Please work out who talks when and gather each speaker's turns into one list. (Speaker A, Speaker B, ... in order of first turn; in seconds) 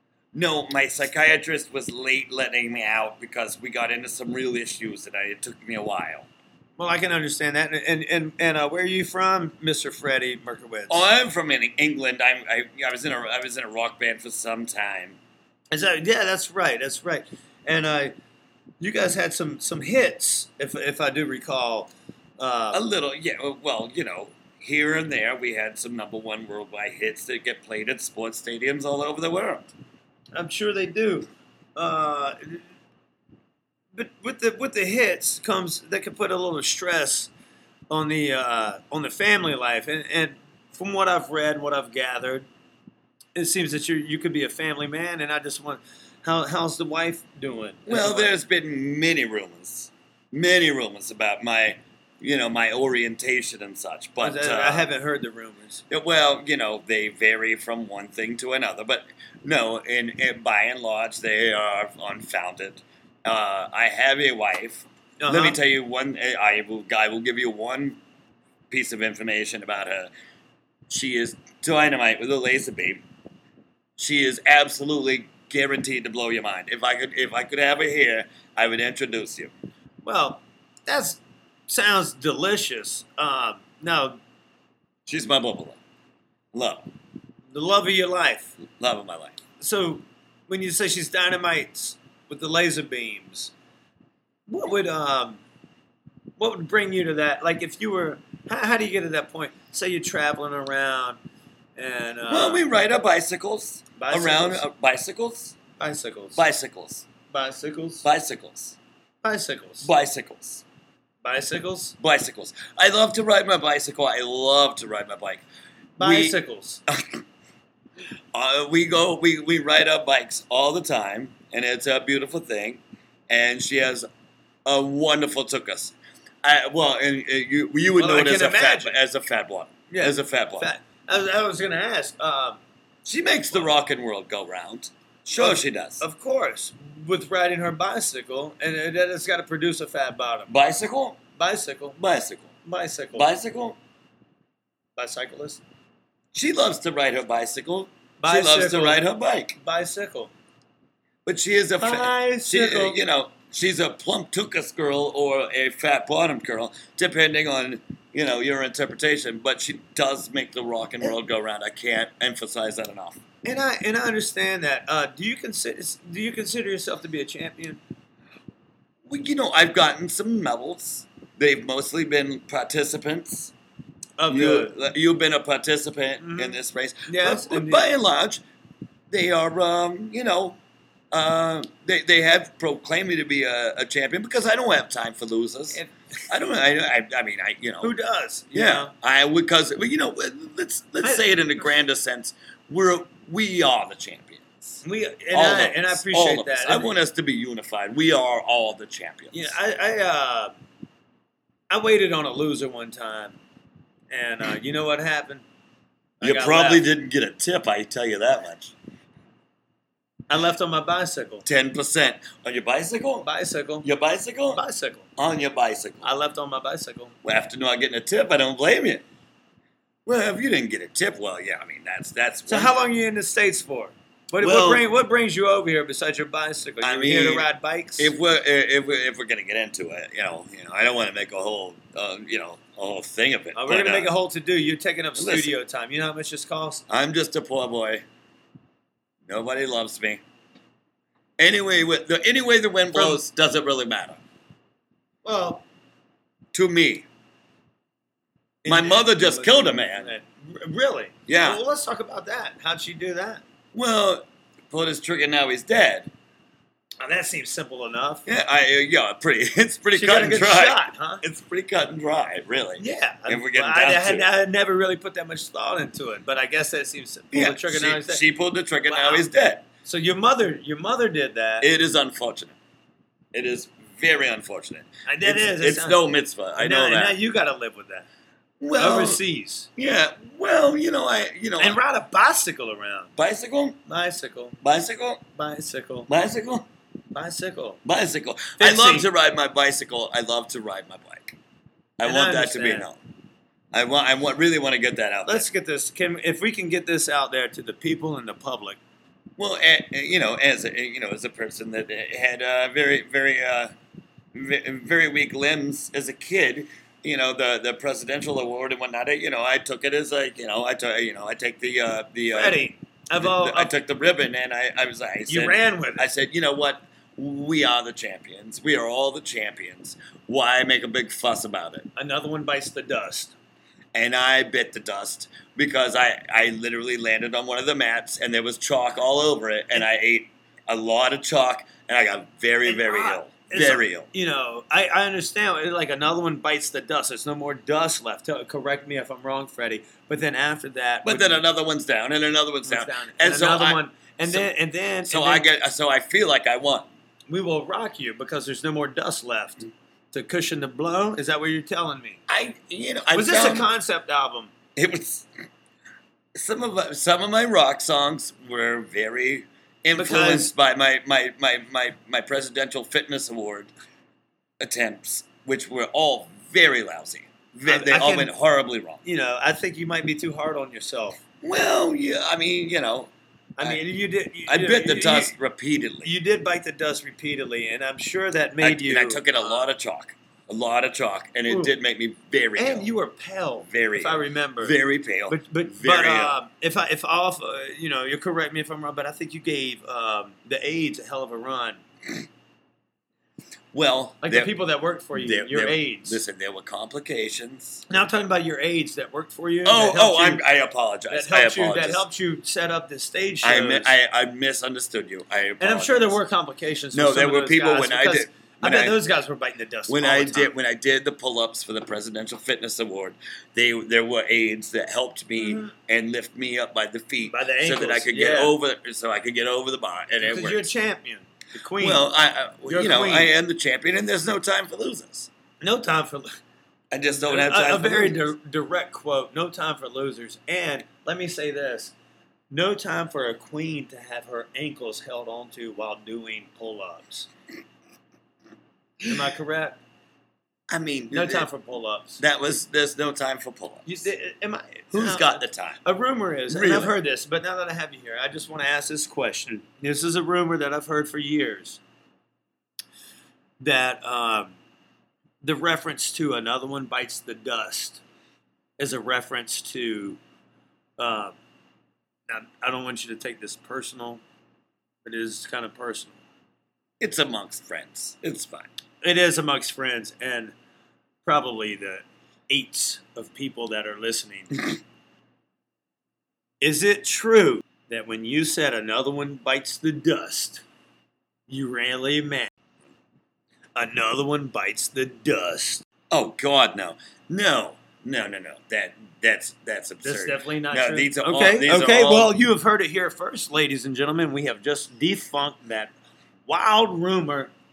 Speaker A: 0.3-6.3, 10.9-15.2, 22.7-29.7, 47.9-54.9, 55.9-68.0, 68.7-70.1, 70.9-73.0, 74.0-79.5, 85.1-85.8, 86.5-86.9, 88.6-89.4, 102.3-105.6, 106.4-107.1, 108.0-108.8, 109.8-110.6, 112.0-115.4, 116.0-116.4, 116.9-117.2, 118.3-124.1, 124.7-130.7, 133.1-136.0, 140.5-141.2, 142.0-142.5, 143.2-143.8, 146.3-149.6, 151.2-163.2, 169.1-173.5, 174.3-178.4, 179.1-180.6, 181.1-187.9, 188.5-199.6, 206.2-208.7, 211.4-213.3, 213.8-214.6, 215.2-216.1, 217.2-219.0, 220.1-222.7, 224.4-224.8, 226.8-234.1, 235.2-235.5, 236.9-238.0, 239.3-240.2, 241.4-244.2, 246.5-247.1, 248.7-250.1, 251.3-251.6, 253.7-256.1, 258.3-264.3, 267.3-269.6, 271.6-272.6, 273.3-277.1, 278.6-279.2, 279.8-281.8, 283.2-283.8, 284.6-285.2, 286.1-286.7, 287.9-291.4, 292.0-293.0, 293.7-295.5, 299.4-303.7, 304.3-312.6, 313.2-321.9, 323.9-334.1, 341.1-344.5, 345.1-346.9, 352.3-353.7, 354.8-355.3, 356.4-363.7, 364.6-369.0, 371.4-373.8, 374.5-376.1, 378.6-382.9, 383.7-386.4, 393.7-394.5, 395.1-397.9, 399.6-402.0, 403.4-406.2, 406.9-409.0, 409.9-420.7, 421.8-425.3, 426.9-428.3, 440.7-441.5, 442.2-444.0, 444.9-445.8, 446.5-446.9, 467.0-468.7, 486.1-492.3
Speaker B: 6.8-11.1, 15.7-18.1, 18.8-22.8, 30.4-32.6, 33.9-37.3, 37.9-42.5, 43.4-48.3, 54.2-55.8, 65.2-65.6, 80.0-84.2, 87.5-88.5, 89.6-93.5, 94.5-95.4, 96.4-101.2, 101.8-102.7, 104.0-104.7, 105.8-106.4, 107.3-108.0, 109.2-109.9, 111.2-112.0, 116.0-116.8, 128.0-129.0, 129.9-132.6, 135.3-140.5, 141.4-142.0, 142.7-143.3, 145.0-145.6, 148.2-150.3, 151.8-153.0, 163.4-167.8, 174.2-174.7, 176.2-177.9, 187.8-188.9, 191.0-191.6, 194.8-197.0, 199.3-200.5, 201.7-203.4, 204.1-205.4, 206.2-206.8, 210.3-211.4, 213.2-213.9, 214.5-215.1, 216.0-217.1, 222.5-228.1, 233.6-236.8, 242.9-243.2, 245.2-245.6, 248.6-253.4, 257.0-258.3, 259.9-261.2, 262.8-268.2, 268.9-269.3, 269.9-271.7, 275.1-276.0, 276.6-278.1, 278.8-279.7, 281.6-283.1, 283.9-284.6, 285.4-286.1, 287.1-287.8, 288.6-289.1, 292.0-292.9, 295.3-298.8, 312.3-313.7, 315.3-316.1, 322.0-323.3, 332.6-341.4, 342.6-345.5, 347.3-352.2, 353.1-354.5, 359.9-360.5, 367.7-368.3, 369.0-371.2, 373.6-375.4, 376.0-379.6, 381.5-381.7, 382.6-384.8, 385.3-391.8, 394.2-396.2, 397.9-400.4, 401.1-403.9, 405.6-410.5, 415.4-415.7, 417.3-418.6, 420.2-422.1, 422.7-423.3, 425.6-426.3, 427.2-431.9, 432.5-437.3, 439.1-439.8, 441.1-442.2, 443.9-451.8, 453.6-454.5, 455.4-458.0, 458.8-460.2, 461.0-461.4, 462.3-464.2, 465.1-466.2, 469.0-470.5, 471.2-474.7, 476.6-480.6, 481.5-482.5, 483.8-485.8, 490.0-495.9, 496.5-497.5